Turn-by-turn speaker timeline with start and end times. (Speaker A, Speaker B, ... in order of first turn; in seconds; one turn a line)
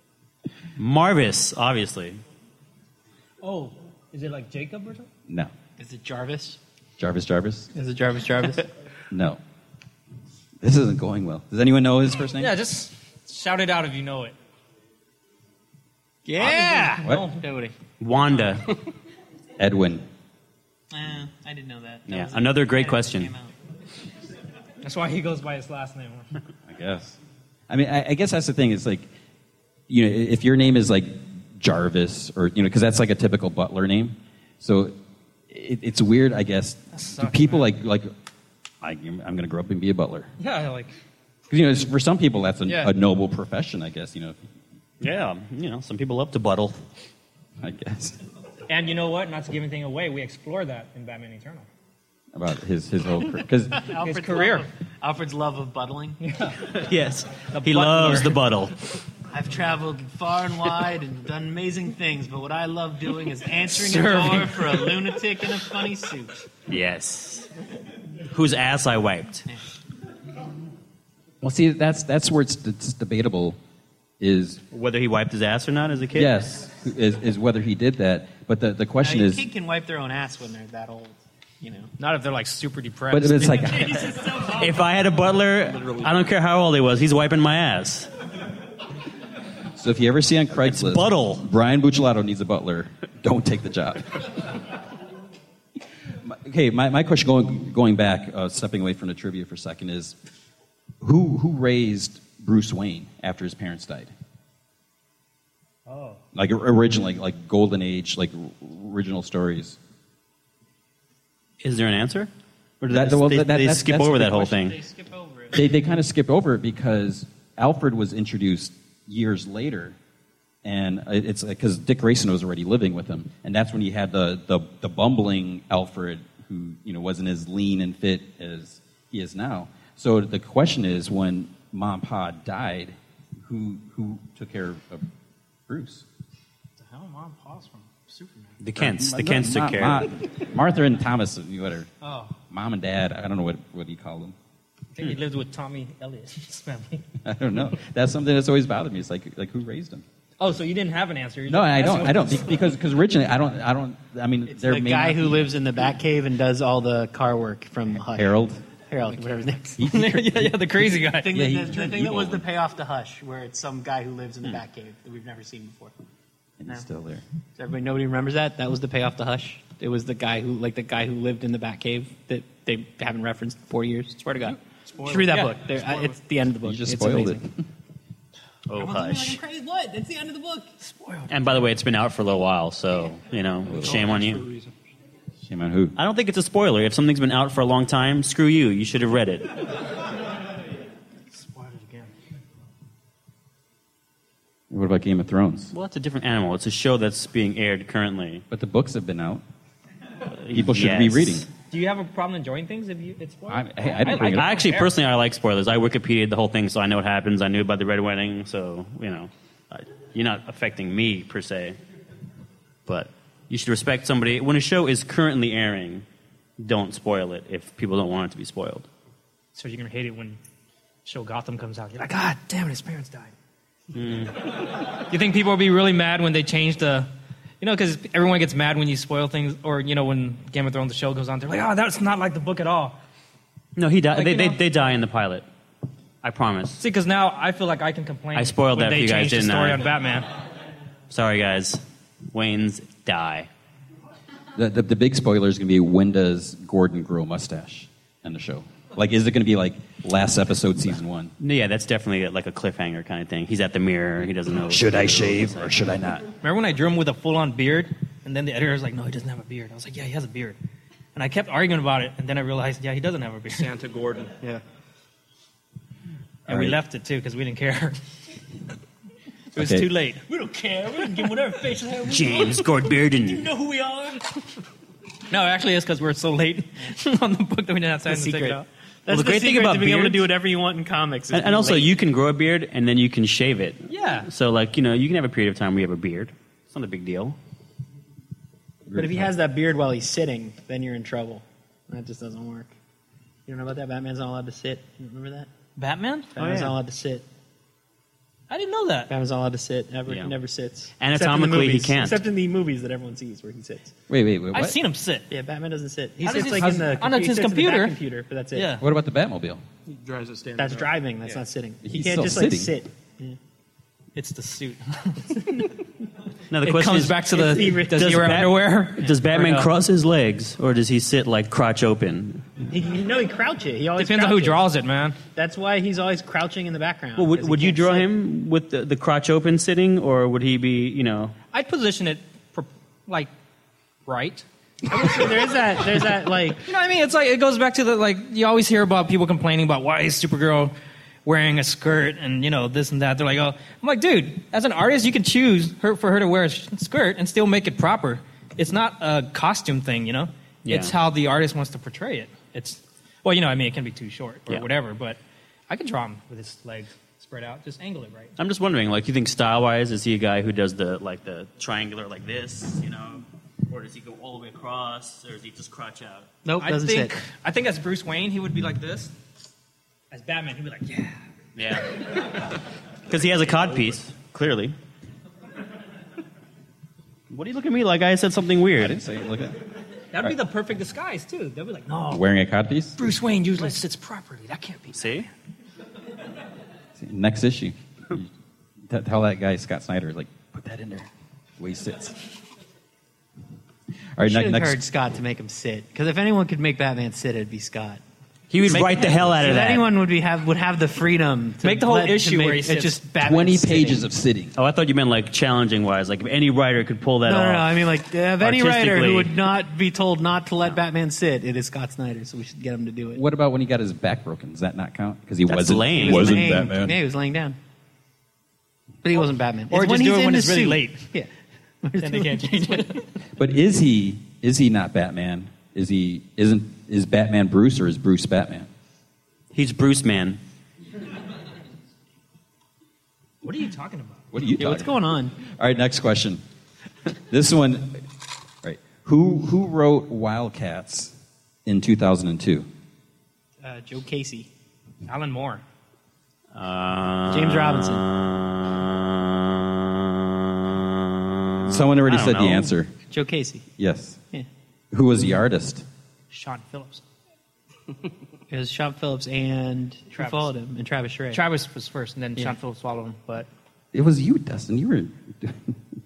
Speaker A: 0.8-2.2
Speaker B: 3.4-5.1
Speaker C: 5.3-5.5
Speaker D: 5.8-6.6
Speaker C: 7.0-7.7
Speaker D: 7.7-8.7
Speaker C: 9.1-9.4
Speaker C: 10.6-12.6
Speaker B: 12.4-14.3
Speaker D: 16.2-17.7
Speaker B: 16.4-17.4
Speaker C: 17.0-17.3
Speaker A: 18.0-18.6
Speaker D: 18.3-18.6
Speaker C: 19.6-20.1
Speaker D: 20.9-23.6
Speaker A: 22.1-23.3
Speaker B: 24.8-26.3
Speaker C: 26.7-29.1
Speaker C: 29.9-35.0
Speaker C: 35.5-38.1
Speaker B: 36.9-37.7
Speaker C: 38.8-40.3
Speaker B: 40.4-40.9
Speaker C: 41.5-44.5
Speaker B: 42.6-42.9
Speaker A: 45.0-46.9
Speaker C: 47.6-48.2
Speaker B: 48.7-51.7
Speaker C: 52.4-53.9
Speaker D: 53.7-56.2
Speaker B: 54.0-54.7
Speaker B: 56.2-56.9
Speaker A: 56.7-58.8
Speaker B: 57.4-58.4
Speaker D: 59.3-66.4
Speaker B: 63.7-65.2
Speaker A: 66.7-67.5
Speaker A: 68.3-69.5
Speaker C: 71.4-73.6
Speaker C: 74.2-74.6
Speaker A: 74.7-76.3
Speaker C: 76.1-79.5
Speaker D: 79.0-81.9
Speaker B: 82.0-84.0
Speaker C: 83.1-84.1
Speaker D: 83.6-84.9
Speaker A: 84.5-88.1
Speaker C: 89.8-94.3
Speaker A: 90.7-91.5
Speaker C: 96.2-100.2
Speaker C: 101.0-104.1
Speaker B: 105.9-106.2
Speaker C: 106.3-109.8
Speaker A: 111.6-114.8
Speaker C: 112.9-114.7
Speaker B: 114.7-115.6
Speaker C: 115.5-120.0
Speaker C: 120.6-135.1
Speaker C: 135.7-136.1
Speaker B: 136.8-138.6
Speaker A: 138.6-140.1
Speaker C: 138.8-141.9
Speaker B: 142.0-142.4
Speaker C: 142.5-144.4
Speaker B: 144.9-147.1
Speaker C: 147.2-150.1
Speaker B: 150.4-152.4
Speaker C: 151.5-155.5
Speaker D: 154.5-158.3
Speaker C: 158.1-158.6
Speaker D: 158.8-159.8
Speaker C: 159.8-162.5
Speaker B: 159.8-161.3
Speaker D: 161.2-165.9
Speaker C: 166.6-167.2
Speaker D: 167.6-177.4
Speaker B: 175.0-175.6
Speaker E: 175.1-175.3
Speaker C: 176.6-177.6
Speaker A: 178.7-179.4
Speaker D: 178.8-180.7
Speaker B: 180.8-181.6
Speaker A: 181.3-184.5
Speaker E: 183.7-184.7
Speaker C: 183.8-184.0
Speaker C: 185.5-186.0
Speaker A: 186.0-189.6
Speaker B: 191.3-192.1
Speaker C: 194.7-195.7
Speaker A: 195.7-198.4
Speaker C: 198.5-199.4
Speaker A: 200.3-201.4
Speaker C: 200.5-201.5
Speaker B: 201.7-204.9
Speaker C: 203.5-204.5
Speaker A: 204.2-211.8
Speaker A: 212.9-216.1
Speaker A: 216.6-218.9
Speaker B: 219.5-220.4
Speaker B: 221.1-223.3
Speaker A: 223.9-224.5
Speaker B: 224.9-227.1
Speaker B: 227.6-233.0
Speaker A: 233.8-235.4
Speaker B: 234.1-234.7
Speaker A: 236.2-236.8
Speaker B: 236.8-240.3
Speaker A: 238.4-239.8
Speaker A: 241.1-243.5
Speaker C: 244.6-251.3
Speaker A: 251.4-255.8
Speaker C: 254.7-256.3
Speaker B: 256.4-260.6
Speaker B: 261.1-263.7
Speaker E: 263.5-264.6
Speaker B: 266.5-268.0
Speaker C: 266.5-266.8
Speaker B: 269.5-272.6
Speaker C: 269.6-269.9
Speaker D: 270.3-272.5
Speaker A: 272.1-273.5
Speaker D: 273.3-274.2
Speaker B: 275.3-278.7
Speaker D: 278.1-281.9
Speaker A: 279.1-280.3
Speaker A: 281.3-287.4
Speaker B: 283.9-284.3
Speaker C: 288.9-289.3
Speaker D: 288.9-292.7
Speaker D: 293.5-295.5
Speaker B: 295.8-296.4
Speaker D: 296.4-297.3
Speaker A: 296.4-296.8
Speaker B: 298.5-299.1
Speaker D: 299.1-303.9
Speaker A: 300.1-300.4
Speaker A: 301.0-302.2
Speaker C: 304.1-304.8
Speaker B: 304.5-305.3
Speaker D: 305.3-308.8
Speaker B: 306.2-308.0
Speaker C: 306.5-306.8
Speaker B: 308.5-308.8
Speaker C: 308.8-309.6
Speaker E: 309.9-311.3
Speaker D: 310.6-313.4
Speaker C: 311.8-312.8
Speaker B: 314.1-315.7
Speaker A: 316.5-322.7
Speaker B: 316.6-319.7
Speaker D: 322.7-324.7
Speaker B: 324.0-325.2
Speaker D: 325.3-328.1
Speaker A: 327.2-331.4
Speaker B: 331.5-333.3
Speaker B: 334.1-335.3
Speaker D: 334.9-336.6
Speaker B: 336.6-340.7
Speaker B: 341.2-358.4
Speaker A: 350.6-350.9
Speaker A: 358.4-366.3
Speaker D: 366.4-367.1
Speaker B: 366.6-369.1
Speaker B: 370.1-371.2
Speaker A: 371.6-372.4
Speaker A: 373.1-374.8
Speaker A: 377.3-379.0
Speaker C: 378.8-379.6
Speaker B: 380.1-382.3
Speaker C: 382.1-383.0
Speaker B: 383.0-385.3
Speaker A: 384.9-385.3
Speaker C: 387.0-388.3
Speaker C: 388.9-392.2
Speaker C: 394.2-394.8
Speaker D: 394.2-398.0
Speaker A: 398.5-399.9
Speaker D: 398.6-404.1
Speaker B: 401.6-403.0
Speaker C: 403.2-404.5
Speaker A: 404.6-407.9
Speaker D: 407.3-413.2
Speaker A: 408.4-409.4
Speaker C: 413.1-417.0
Speaker A: 415.5-416.6
Speaker D: 415.9-417.6
Speaker D: 419.0-421.3
Speaker B: 419.2-421.1
Speaker D: 421.8-423.0
Speaker B: 422.0-423.1
Speaker C: 423.4-428.7
Speaker A: 429.5-430.4
Speaker B: 433.4-434.2
Speaker C: 434.3-436.4
Speaker D: 434.6-435.4
Speaker C: 437.3-438.1
Speaker C: 438.6-441.1
Speaker C: 441.7-442.7
Speaker D: 443.6-444.5
Speaker B: 445.1-445.6
Speaker A: 446.5-452.7
Speaker D: 447.3-448.0
Speaker C: 451.6-452.9
Speaker D: 453.1-453.7
Speaker C: 453.8-454.2
Speaker C: 454.9-455.9
Speaker B: 456.3-457.0
Speaker D: 458.5-461.4
Speaker B: 460.2-460.5
Speaker B: 461.3-463.5
Speaker C: 463.9-465.8